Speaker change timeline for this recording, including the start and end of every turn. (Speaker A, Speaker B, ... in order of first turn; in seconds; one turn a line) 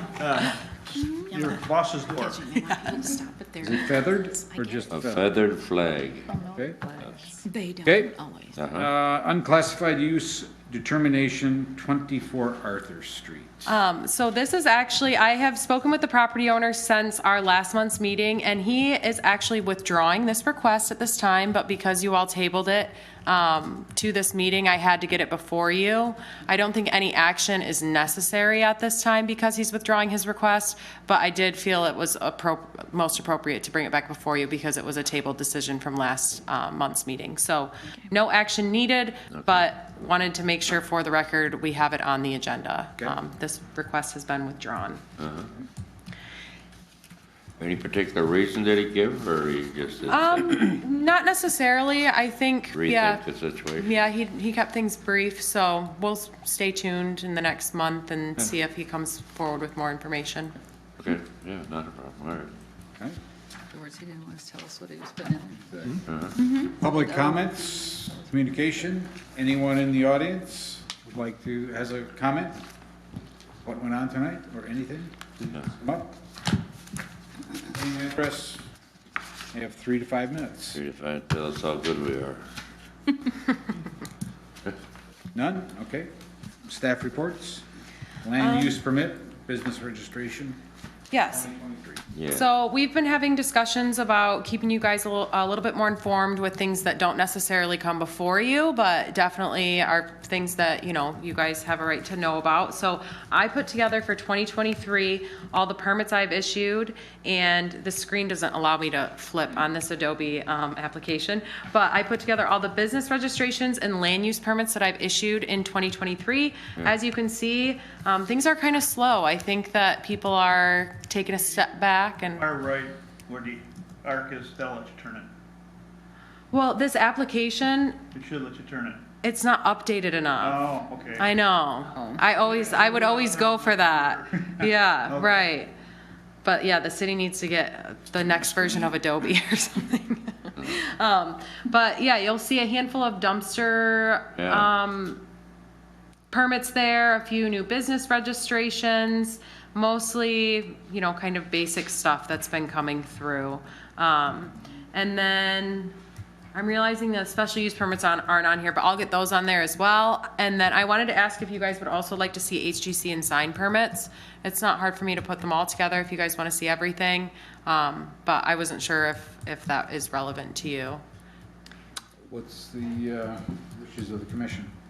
Speaker A: 0.2-2.5
Speaker B: 1.1-4.9
Speaker C: 3.6-5.3
Speaker D: 4.9-6.3
Speaker B: 6.3-8.6
Speaker C: 6.5-6.8
Speaker C: 7.8-8.2
Speaker D: 8.5-8.9
Speaker C: 8.7-13.8
Speaker E: 13.7-45.0
Speaker D: 39.3-39.7
Speaker D: 45.2-45.5
Speaker D: 47.6-50.6
Speaker E: 50.1-53.2
Speaker D: 52.7-53.9
Speaker E: 53.8-60.5
Speaker D: 61.0-62.5
Speaker B: 63.7-65.8
Speaker C: 65.7-72.6
Speaker D: 66.1-66.4
Speaker B: 66.4-68.2
Speaker C: 73.7-76.1
Speaker C: 77.6-78.6
Speaker C: 79.5-80.8
Speaker D: 80.8-82.4
Speaker C: 85.3-86.1
Speaker C: 86.7-87.6
Speaker C: 88.2-90.6
Speaker E: 88.4-88.8
Speaker E: 91.1-91.5
Speaker C: 91.3-92.0
Speaker D: 92.1-92.5
Speaker E: 92.3-122.5
Speaker A: 122.4-125.3
Speaker E: 126.5-128.0
Speaker A: 128.1-129.0
Speaker E: 129.2-130.6
Speaker A: 130.4-131.3
Speaker E: 131.2-135.7
Speaker A: 132.3-135.4
Speaker E: 136.4-145.2
Speaker D: 144.3-144.7
Speaker E: 146.3-155.9
Speaker E: 156.5-171.0
Speaker C: 172.3-174.7